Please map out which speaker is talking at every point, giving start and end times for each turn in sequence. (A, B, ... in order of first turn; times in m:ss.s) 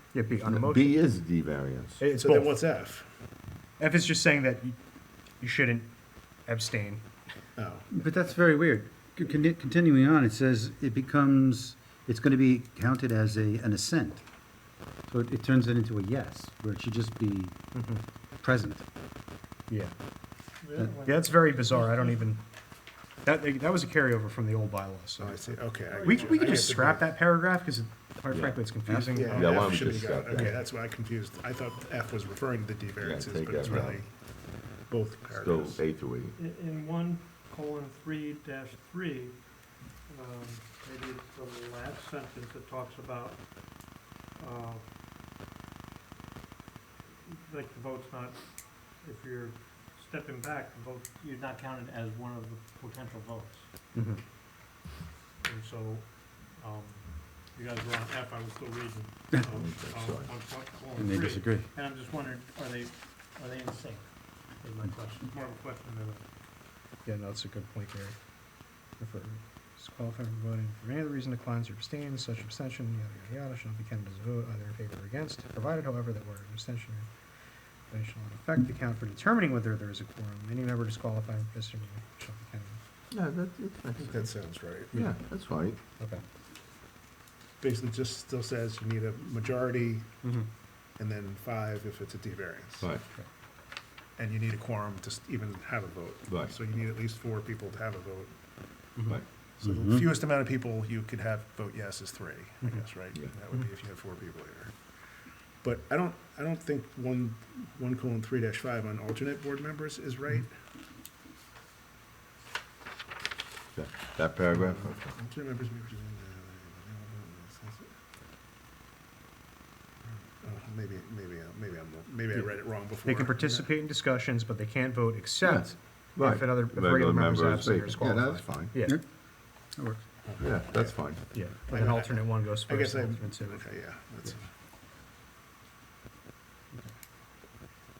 0:00.1-0:01.0 A
0:00.4-0:02.0 B
0:02.0-0:02.6 A
0:02.2-0:03.1 C
0:03.8-0:04.8 A
0:05.4-0:05.9 A
0:06.5-0:07.0 A
0:07.6-0:07.9 C
0:07.9-0:14.2 D
0:15.1-0:17.6 D
0:17.7-0:18.0 A
0:18.4-0:18.8 D
0:19.7-0:19.9 A
0:20.6-0:22.0 E
0:21.0-0:22.4 A
0:23.2-0:30.6 A
0:25.2-0:27.1 C
0:25.9-0:26.7 E
0:28.3-0:28.6 B
0:28.9-0:29.2 D
0:29.1-0:34.1 C
0:29.3-0:30.5 B
0:33.0-0:34.0 B
0:34.9-0:35.8 C
0:35.3-0:36.4 B
0:36.4-0:39.4 E
0:40.1-0:43.4 E
0:44.4-0:44.8 E
0:47.2-0:53.6 E
0:53.9-0:54.2 A
0:55.4-1:06.2 E
0:59.5-1:00.3 B
1:01.0-1:01.7 D
1:07.0-1:08.2 A
1:09.0-1:17.1 A
1:17.9-1:22.8 A
1:23.1-1:24.2 B
1:24.0-1:25.1 C
1:24.9-1:25.8 B
1:27.6-1:30.1 C
1:30.2-1:30.5 A
1:31.0-1:32.9 C
1:32.8-1:33.0 B
1:34.2-1:38.3 C
1:36.3-1:36.6 B
1:39.0-1:39.2 A
1:39.6-1:44.7 C
1:39.6-1:40.0 D
1:45.6-1:50.5 C
1:53.8-1:55.2 B
1:54.5-1:57.9 C
2:00.0-2:03.7 C
2:03.0-2:09.0 A
2:05.4-2:08.7 B
2:09.7-2:10.0 D
2:10.2-2:11.0 C
2:10.4-2:11.2 B
2:11.3-2:13.7 A
2:11.6-2:14.5 C